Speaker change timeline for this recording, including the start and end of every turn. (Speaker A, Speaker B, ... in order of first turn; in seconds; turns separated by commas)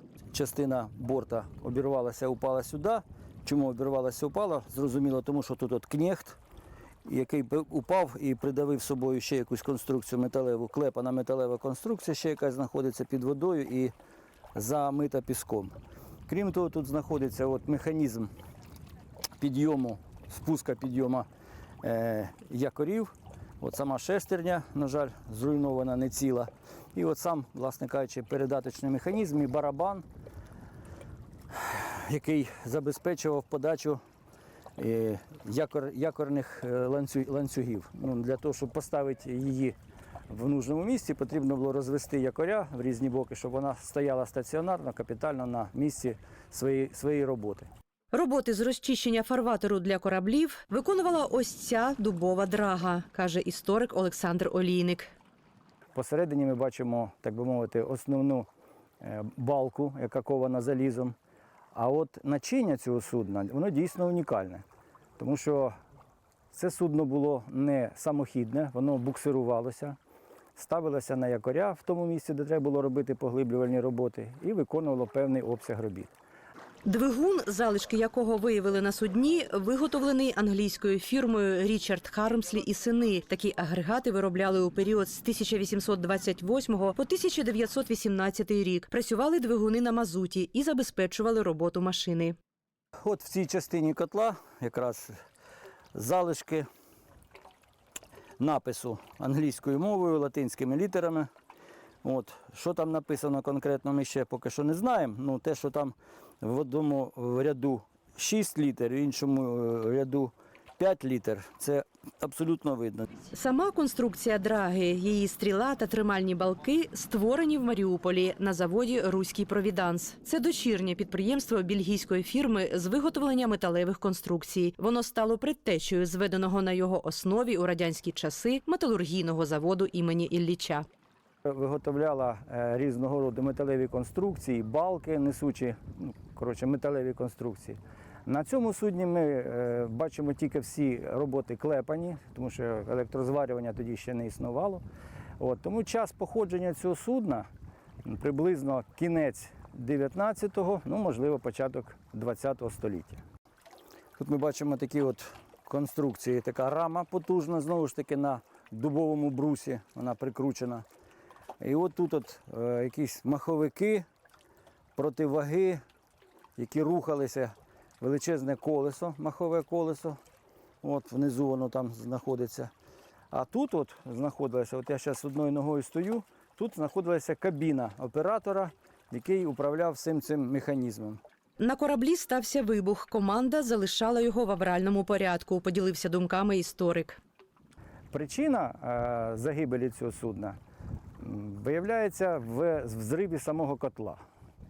Speaker A: 0.3-6.4, Speaker A: 7.0-13.9, Speaker A: 14.5-15.7, Speaker A: 16.3-18.3, Speaker A: 19.4-21.3, Speaker A: 21.8-30.0, Speaker A: 31.5-34.0, Speaker A: 34.8-39.8, Speaker A: 40.3-47.7, Speaker B: 48.1-55.1, Speaker A: 55.9-58.5, Speaker A: 59.0-61.1, Speaker A: 61.7-64.6, Speaker A: 65.2-65.7, Speaker A: 66.5-70.0, Speaker A: 70.5-76.1, Speaker B: 76.8-92.3, Speaker A: 93.0-95.1, Speaker A: 95.9-96.7, Speaker A: 98.4-101.3, Speaker A: 102.0-113.1, Speaker B: 113.3-130.8, Speaker A: 131.4-144.8, Speaker A: 145.4-147.5, Speaker A: 148.0-153.2, Speaker A: 154.2-160.8, Speaker A: 161.6-164.1, Speaker A: 164.9-165.8, Speaker A: 166.6-170.2, Speaker A: 170.8-172.7, Speaker A: 173.3-181.2, Speaker B: 181.6-187.2, Speaker A: 188.1-190.6, Speaker A: 191.2-194.2